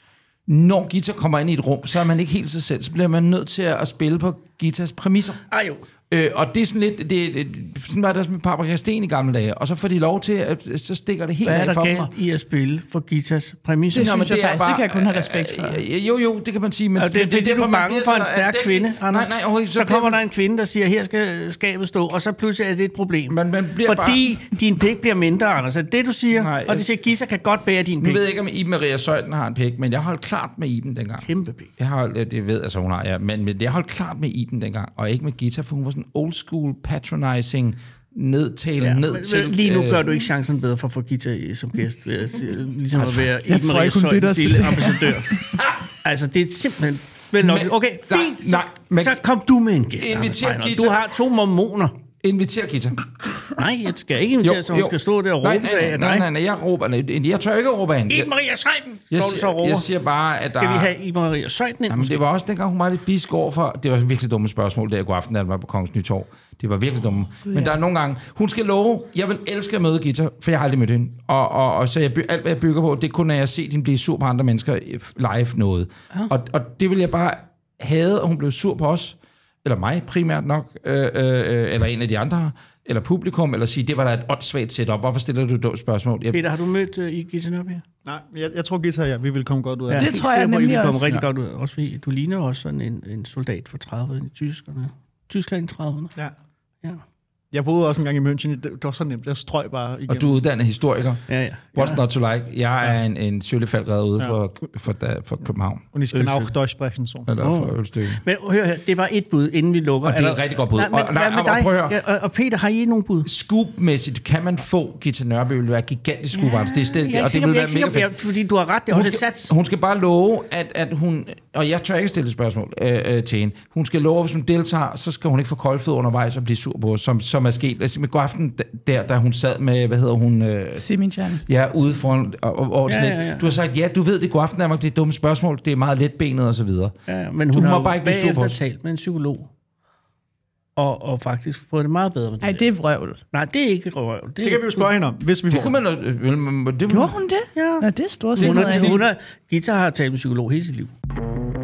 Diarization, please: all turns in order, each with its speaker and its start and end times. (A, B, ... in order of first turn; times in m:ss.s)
0:00.5-0:05.4 A
0:05.5-0:05.8 B
0:06.1-0:12.1 A
0:11.4-0:14.2 B
0:13.9-0:20.2 A
0:13.9-0:15.8 C
0:17.0-0:28.2 B
0:23.3-0:24.3 A
0:26.3-0:26.8 A
0:28.0-0:31.2 A
0:31.2-0:31.7 B
0:31.8-0:40.0 A
0:38.8-0:45.3 B
0:43.2-0:45.2 C
0:45.3-0:45.8 A
0:46.0-0:52.0 B
0:47.4-0:49.2 A
0:50.0-0:51.0 A
0:52.2-0:53.6 A
0:53.6-0:56.3 B
0:54.4-0:58.3 A
0:58.1-0:59.9 B
0:59.1-1:00.9 A
1:00.5-1:02.2 B
1:01.9-1:26.4 A
1:26.3-1:27.8 B
1:28.0-1:30.2 D
1:29.9-1:36.1 B
1:29.9-1:31.2 C
1:37.5-1:40.4 D
1:40.1-1:46.4 A
1:41.3-1:42.0 B
1:45.9-1:47.3 D
1:47.2-1:48.2 A
1:47.4-1:53.3 B
1:50.0-1:52.0 A
1:53.2-1:58.1 A
1:56.3-1:59.5 B
1:58.9-2:16.9 A
2:10.8-2:11.4 C
2:12.9-2:13.6 B
2:17.1-2:19.5 B
2:17.5-2:18.6 A
2:20.8-2:22.7 B
2:22.4-2:23.2 C
2:23.3-2:25.0 B
2:24.4-2:25.8 D
2:25.5-2:27.2 A
2:26.9-2:29.0 C
2:27.5-2:30.9 B
2:28.4-2:29.1 A